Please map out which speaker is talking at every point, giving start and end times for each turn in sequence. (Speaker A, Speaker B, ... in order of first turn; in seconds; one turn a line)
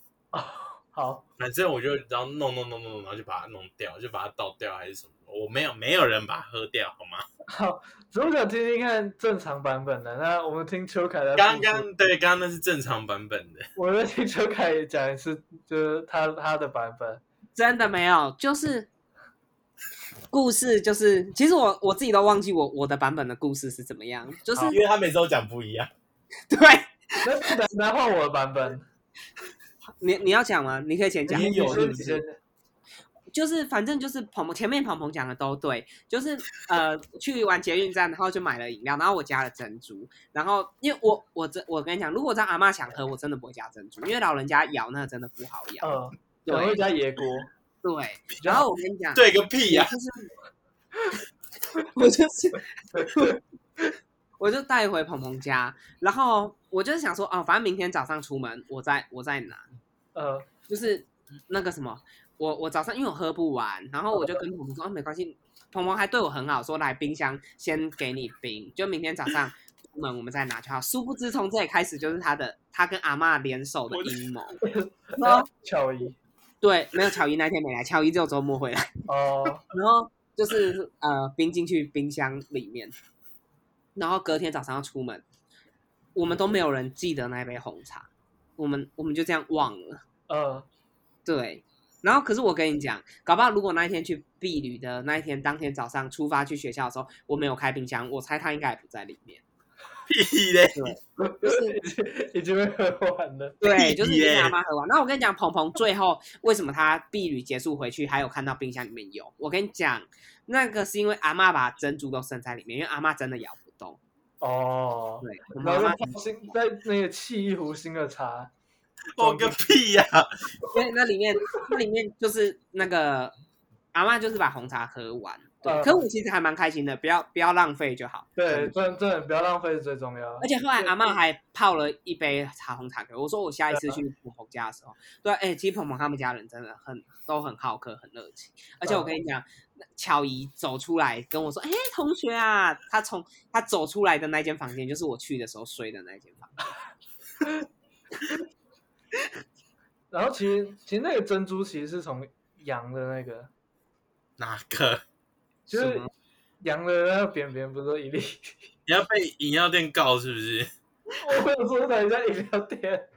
Speaker A: 0.3-1.2
Speaker B: 1.4-7.2
Speaker A: 7.5-12.1
Speaker B: 11.3-13.7
Speaker A: 13.8-17.2
Speaker C: 17.6-18.9
Speaker C: 20.3-24.8
Speaker A: 24.5-24.8
Speaker B: 24.7-25.9
Speaker C: 26.5-27.5
Speaker A: 27.2-28.9
Speaker C: 30.0-32.2
Speaker A: 31.3-32.4
Speaker B: 31.4-32.0
Speaker C: 33.3-45.9
Speaker A: 45.8-47.5
Speaker C: 46.5-46.9
Speaker C: 47.8-50.3
Speaker A: 48.4-48.7
Speaker B: 49.1-50.0
Speaker C: 51.9-53.4
Speaker A: 53.0-53.4
Speaker C: 54.4-59.6
Speaker A: 60.1-60.5
Speaker C: 60.7-74.6
Speaker A: 64.1-64.4
Speaker B: 73.9-74.2
Speaker A: 74.6-76.2
Speaker C: 75.2-75.5
Speaker C: 76.6-78.9
Speaker A: 79.1-79.7
Speaker C: 79.7-82.9
Speaker C: 84.0-85.2
Speaker C: 86.2-90.0
Speaker A: 90.3-90.7
Speaker C: 91.2-99.4
Speaker B: 100.1-100.9
Speaker C: 100.8-101.8
Speaker A: 101.2-103.6
Speaker C: 103.6-114.0
Speaker B: 103.7-104.6
Speaker A: 114.4-118.5
Speaker C: 115.2-116.0
Speaker B: 119.2-120.3
Speaker A: 119.2-119.6
Speaker C: 120.7-123.3
Speaker C: 123.9-128.8
Speaker A: 125.6-126.0
Speaker A: 128.4-131.1
Speaker C: 130.4-139.4
Speaker A: 133.7-134.0
Speaker A: 138.8-139.1
Speaker C: 140.0-146.6
Speaker A: 150.1-153.5
Speaker B: 154.4-155.0
Speaker A: 155.7-156.1
Speaker C: 155.7-156.1
Speaker A: 156.6-158.7
Speaker B: 158.9-160.7
Speaker A: 161.1-163.1